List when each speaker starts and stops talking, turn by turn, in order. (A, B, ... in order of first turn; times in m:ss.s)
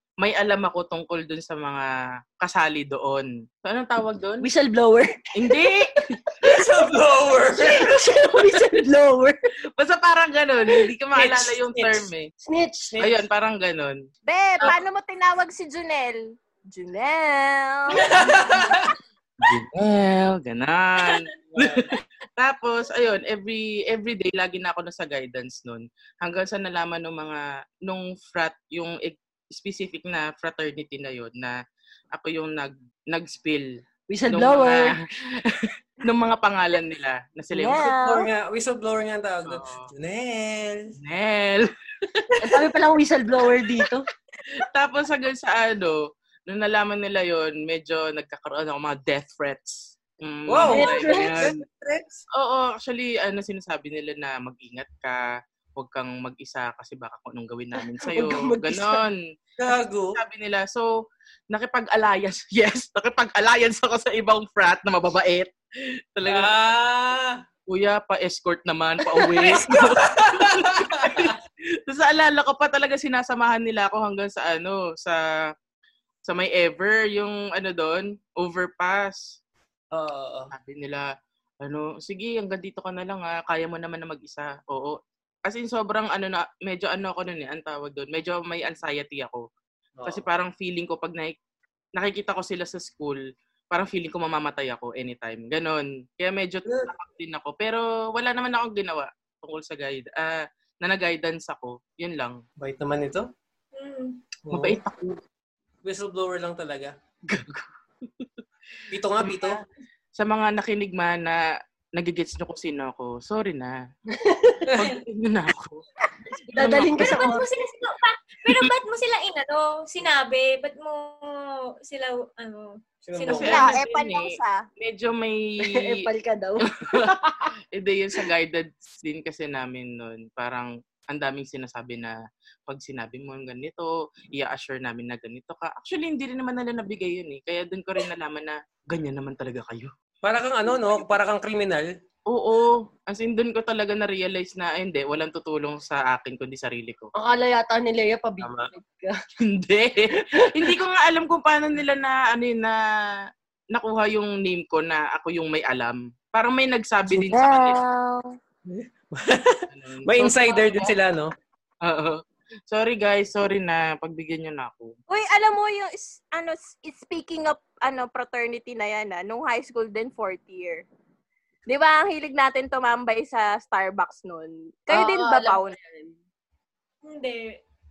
0:00.2-0:04.4 A
0:04.4-0:05.8 B
0:05.4-0:06.1 A
0:06.4-0:07.9 C
0:07.5-0:09.4 B
0:09.8-0:12.3 A
0:11.1-0:12.1 C
0:12.4-0:13.2 B
0:13.0-0:14.0 A
0:14.3-0:18.3 D
0:18.0-0:18.9 C
0:19.4-0:31.6 A
0:21.5-0:21.9 C
0:32.1-0:37.9 A
0:34.1-0:35.0 B
0:37.5-0:38.3 D
0:37.7-0:40.9 C
0:39.5-0:39.9 A
0:41.0-0:42.7 A
0:42.4-0:44.0 B
0:44.5-0:51.6 A
0:50.5-0:52.2 C
0:50.7-0:51.5 B
0:52.3-0:59.2 A
0:57.8-0:59.0 B
0:59.6-1:00.2 C
1:00.1-1:00.9 A
1:01.5-1:05.5 A
1:06.1-1:06.5 A
1:06.2-1:07.4 C
1:07.7-1:15.2 A
1:09.2-1:11.3 C
1:16.3-1:19.2 A
1:19.9-1:20.5 C
1:20.5-1:21.1 A
1:21.6-1:29.4 A
1:30.0-1:30.2 C
1:30.0-1:31.4 A
1:31.9-1:42.4 A
1:36.6-1:36.9 C
1:42.6-1:43.2 C
1:43.7-1:44.2 E
1:44.5-1:44.8 C
1:44.5-1:45.2 A
1:45.8-1:46.9 C
1:47.3-1:48.3 A
1:48.9-1:49.6 C
1:49.2-1:49.6 A
1:50.2-1:51.4 A
1:52.0-1:53.8 A
1:54.1-1:54.7 B
1:54.7-1:55.8 A
1:56.5-1:57.4 B
1:56.6-1:57.0 A
1:56.7-2:03.8 E
2:03.0-2:03.7 C
2:03.3-2:06.0 A
2:03.4-2:04.6 D
2:05.6-2:07.5 B
2:06.7-2:07.1 A
2:07.7-2:19.9 A
2:20.2-2:21.9 C
2:22.3-2:27.1 A
2:27.2-2:29.2 B
2:28.4-2:28.7 C
2:29.4-2:33.2 A
2:30.4-2:30.8 B
2:33.7-2:37.8 A
2:37.1-2:38.4 D
2:38.7-2:41.3 C
2:39.7-2:40.9 A
2:41.8-2:44.9 A
2:45.1-2:50.8 D
2:51.7-2:55.8 D
2:54.9-2:56.1 B
2:57.0-2:57.6 E